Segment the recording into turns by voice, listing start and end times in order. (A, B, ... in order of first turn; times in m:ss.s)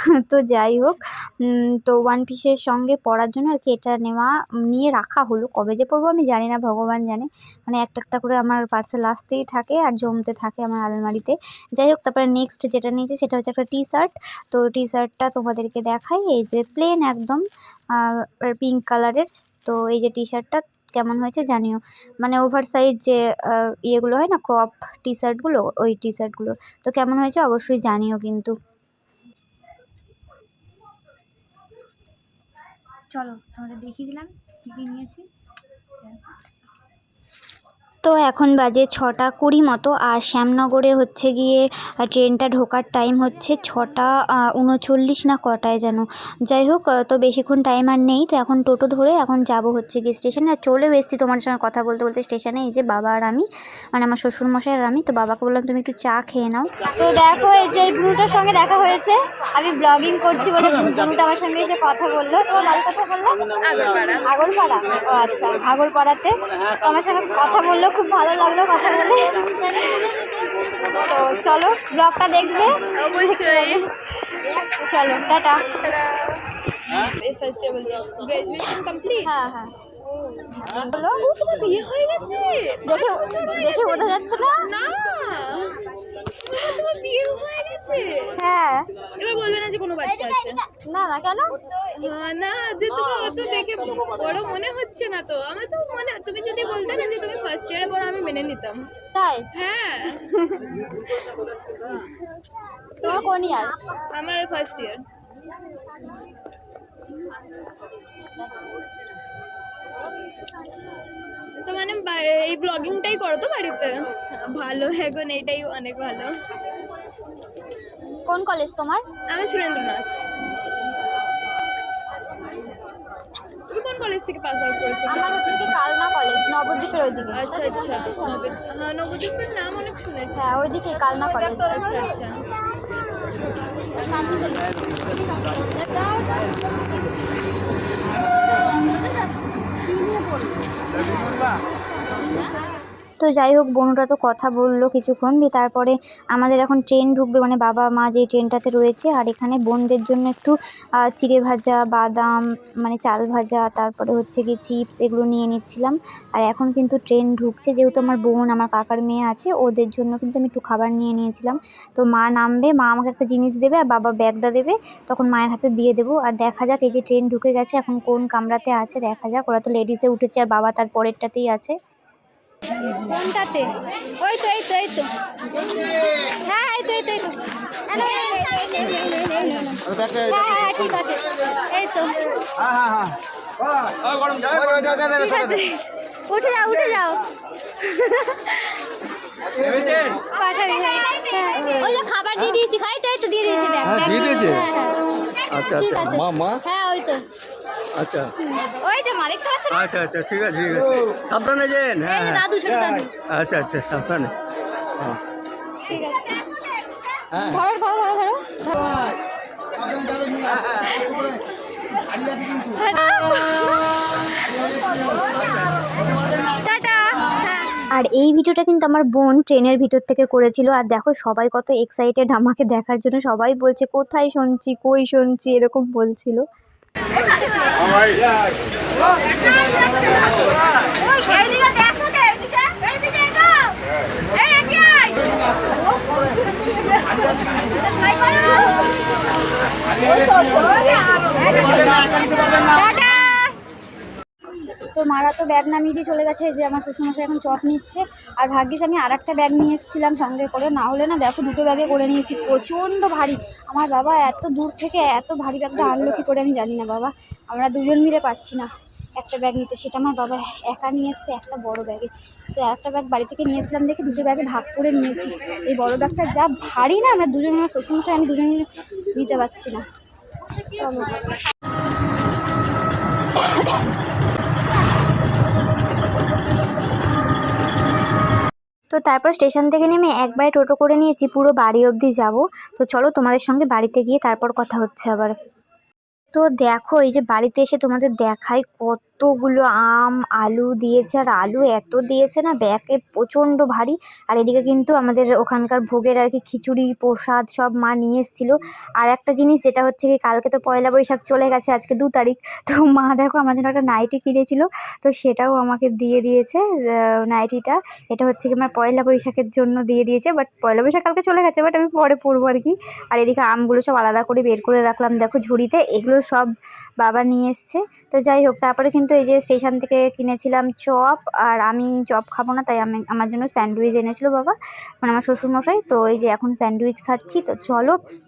0:00.2-0:28.5 A
0:33.1-0:35.3 A
0:38.0-1:03.4 A
1:03.6-1:04.3 B
1:04.2-1:10.1 A
1:09.7-1:10.8 B
1:10.8-1:15.7 A
1:12.9-1:13.9 B
1:15.7-1:19.3 B
1:19.2-1:19.7 A
1:20.1-1:25.9 B
1:20.6-1:21.2 A
1:22.9-1:24.7 A
1:26.4-1:28.4 B
1:28.3-1:28.9 A
1:29.1-1:30.6 B
1:30.1-1:31.6 A
1:31.9-1:38.9 B
1:39.1-1:39.5 A
1:39.5-1:40.9 B
1:40.2-1:40.7 A
1:43.0-1:43.8 A
1:44.1-1:45.0 B
1:51.6-1:56.4 B
1:58.3-1:59.0 A
1:59.3-2:00.2 B
2:03.7-2:05.4 B
2:05.0-2:08.5 A
2:07.3-2:12.5 B
2:10.3-2:12.1 A
2:15.9-2:16.3 B
2:23.2-2:51.8 A
2:52.8-2:55.1 A
2:56.4-3:02.3 A
3:04.8-3:07.2 A
3:07.8-3:08.8 A
3:10.3-3:17.2 A
3:13.9-3:14.6 C
3:15.5-3:16.6 C
3:18.0-3:18.3 C
3:18.4-3:20.0 A
3:19.7-3:22.5 C
3:22.0-3:23.3 A
3:23.2-3:24.4 C
3:25.8-3:26.4 A
3:27.4-3:28.6 A
3:32.8-3:33.7 A
3:36.6-3:37.2 A
3:37.8-3:46.4 A
4:01.7-4:03.5 A
4:05.0-4:29.8 A
4:30.8-4:31.2 A
4:38.9-4:45.4 A
4:46.3-5:28.0 A